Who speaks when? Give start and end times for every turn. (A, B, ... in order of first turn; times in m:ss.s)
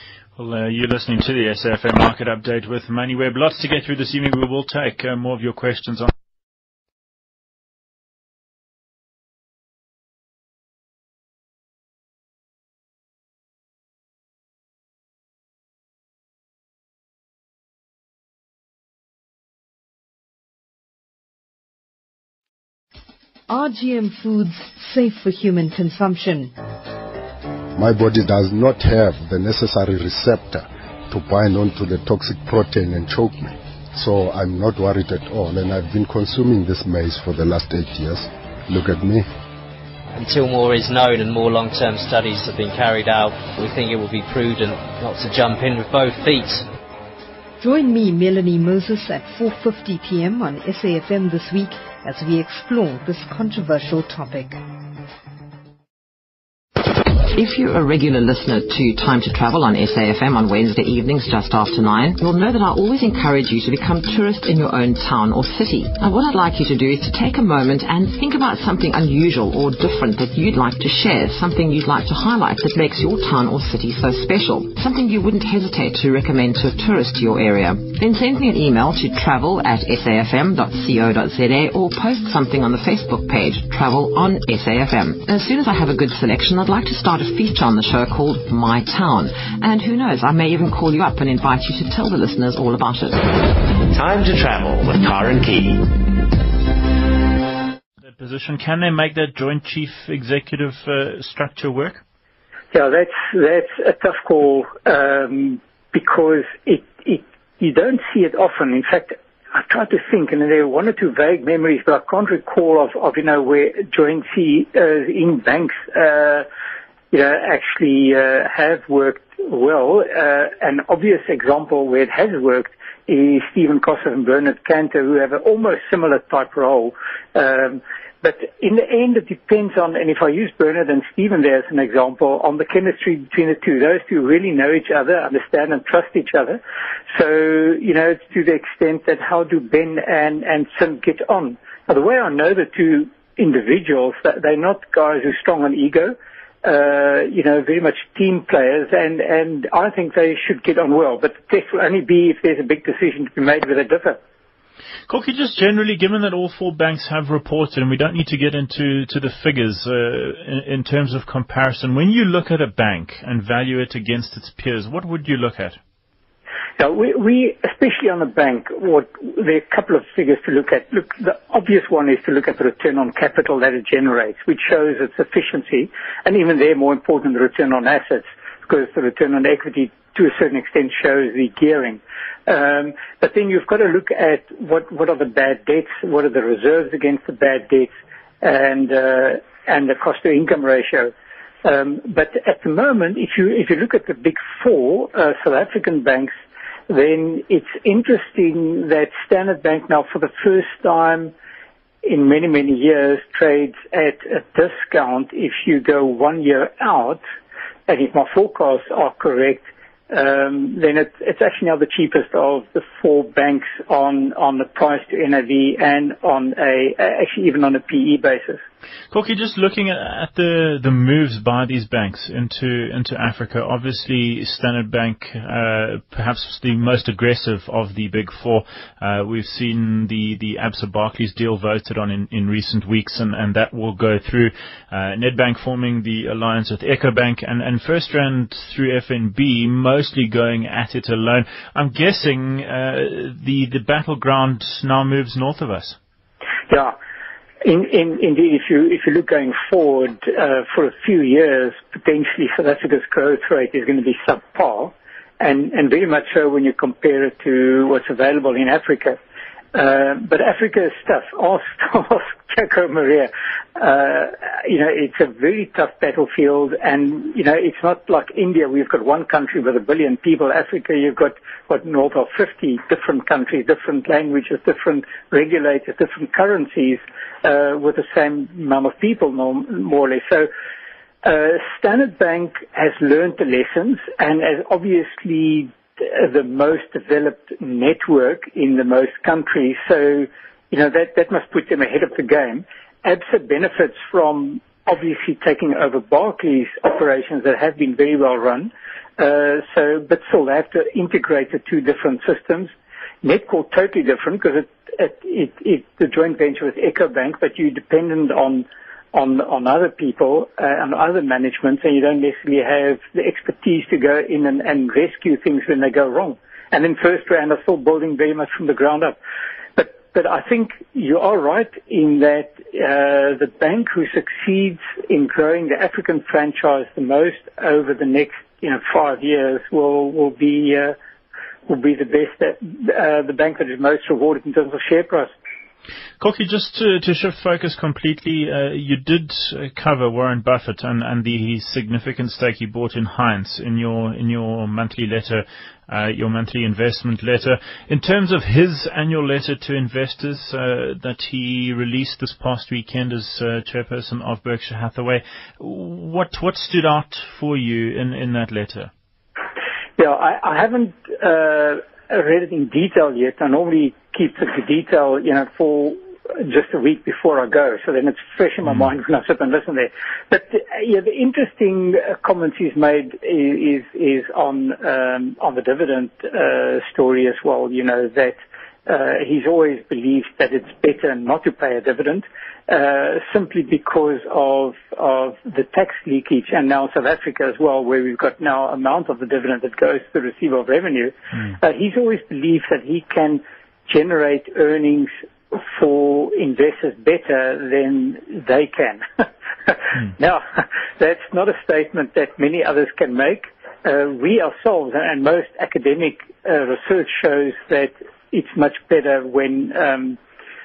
0:00.4-0:06.1 A
0:23.5-0:26.5 B
0:27.8-0:39.3 C
0:40.1-0:46.7 D
0:47.6-0:54.6 B
0:57.1-1:33.3 E
1:33.9-1:36.1 F
1:38.2-1:42.0 A
1:42.7-1:56.4 G
1:57.1-2:16.6 G
2:17.1-2:34.2 G
2:35.1-2:45.8 A
2:46.8-3:07.9 G
3:08.4-3:11.1 G
3:11.6-3:16.3 G
3:16.9-3:21.3 G
3:22.0-3:27.2 G
3:27.9-3:38.6 G
3:39.1-4:06.0 A
4:06.7-4:07.0 G
4:07.6-4:19.2 G
4:19.7-4:40.5 G
4:41.2-5:02.7 G
5:03.2-5:19.2 G
5:19.8-5:31.0 G
5:31.7-5:35.3 G
5:36.2-5:58.9 A
6:00.0-6:39.0 G
6:39.7-6:50.2 G